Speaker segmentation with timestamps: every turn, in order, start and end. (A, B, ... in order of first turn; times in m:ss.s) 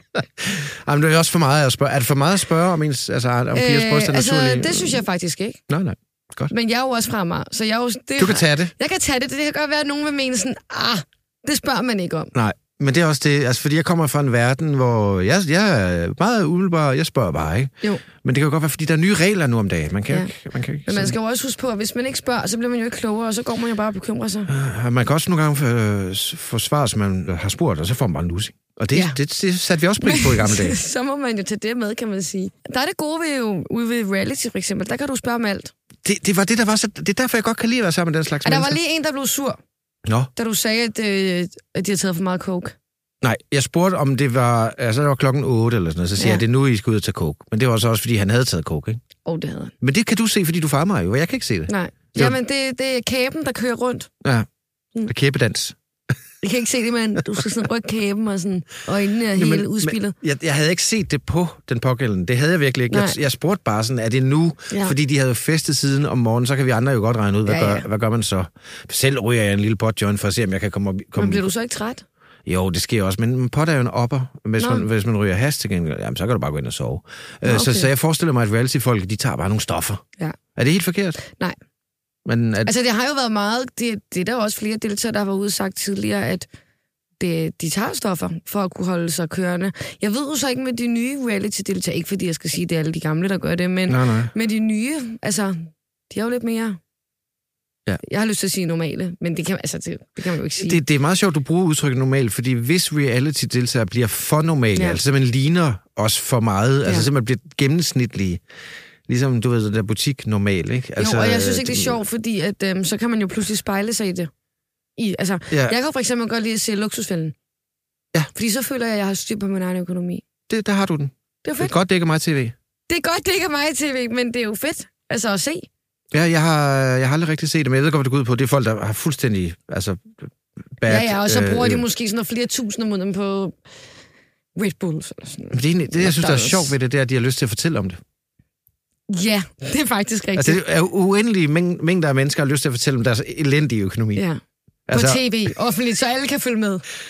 0:00.1-0:05.0 A
0:03.5-0:05.6 B
0:05.7-0:06.5 A
0:06.5-0:12.3 B
0:08.2-0:08.7 A
0:12.3-0:21.2 A
0:20.8-0:24.5 B
0:24.5-0:30.8 A
0:28.9-0:29.2 B
0:30.0-0:35.7 B
0:36.0-0:38.8 A
0:38.4-0:39.6 B
0:40.0-0:40.3 A
0:40.4-0:42.7 B
0:43.2-0:49.0 A
0:46.2-0:46.4 B
0:49.2-0:49.7 B
0:49.8-0:52.4 A
0:51.7-0:54.1 B
0:55.0-0:55.8 A
0:56.4-1:00.1 B
0:59.3-1:11.5 A
1:02.9-1:03.2 B
1:07.4-1:07.8 B
1:11.2-1:12.0 B
1:12.4-1:20.0 A
1:14.6-1:14.8 B
1:17.4-1:17.9 B
1:20.6-1:21.2 A
1:21.3-1:21.6 B
1:22.2-1:22.7 A
1:22.6-1:26.5 B
1:27.2-1:36.8 B
1:33.9-1:34.3 A
1:38.0-1:40.8 B
1:40.6-1:48.4 A
1:49.1-1:52.0 A
1:51.0-1:54.3 B
1:55.0-1:57.3 B
1:55.5-1:55.8 A
1:58.3-2:00.2 B
2:00.5-2:02.5 A
2:01.4-2:01.7 B
2:02.9-2:05.7 B
2:06.1-2:10.2 A
2:10.8-2:11.8 A
2:10.8-2:13.6 B
2:14.6-2:16.7 B
2:15.5-2:18.0 A
2:19.1-2:20.6 B
2:20.4-2:24.2 A
2:24.1-2:24.4 B
2:24.9-2:25.2 A
2:24.9-2:26.8 B